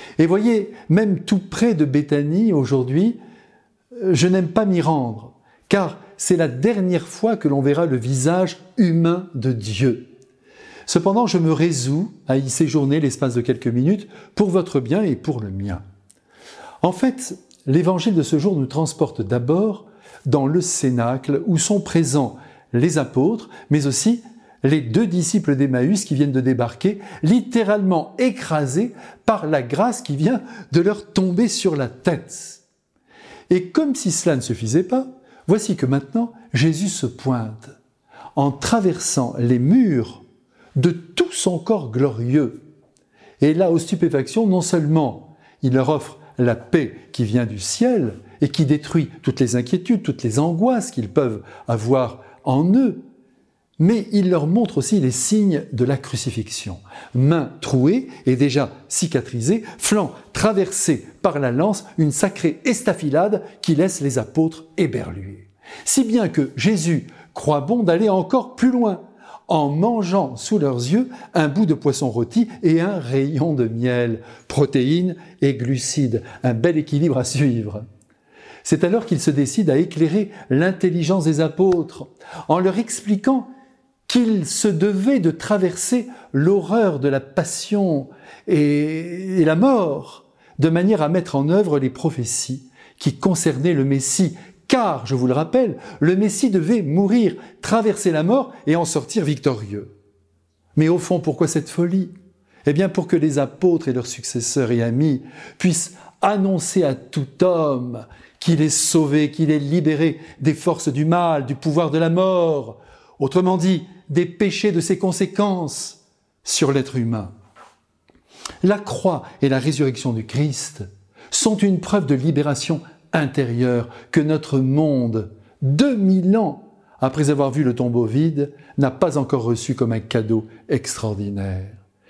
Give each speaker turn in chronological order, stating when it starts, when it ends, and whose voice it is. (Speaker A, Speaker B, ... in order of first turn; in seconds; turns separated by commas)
Speaker A: 0.2-3.2, Speaker A: 4.0-10.1, Speaker A: 10.9-15.8, Speaker A: 16.8-32.6, Speaker A: 33.5-37.8, Speaker A: 38.4-40.2, Speaker A: 40.8-42.6, Speaker A: 43.4-53.0, Speaker A: 53.8-77.8, Speaker A: 78.6-83.5, Speaker A: 84.1-99.9, Speaker A: 100.7-102.1, Speaker A: 102.6-117.3, Speaker A: 118.6-131.8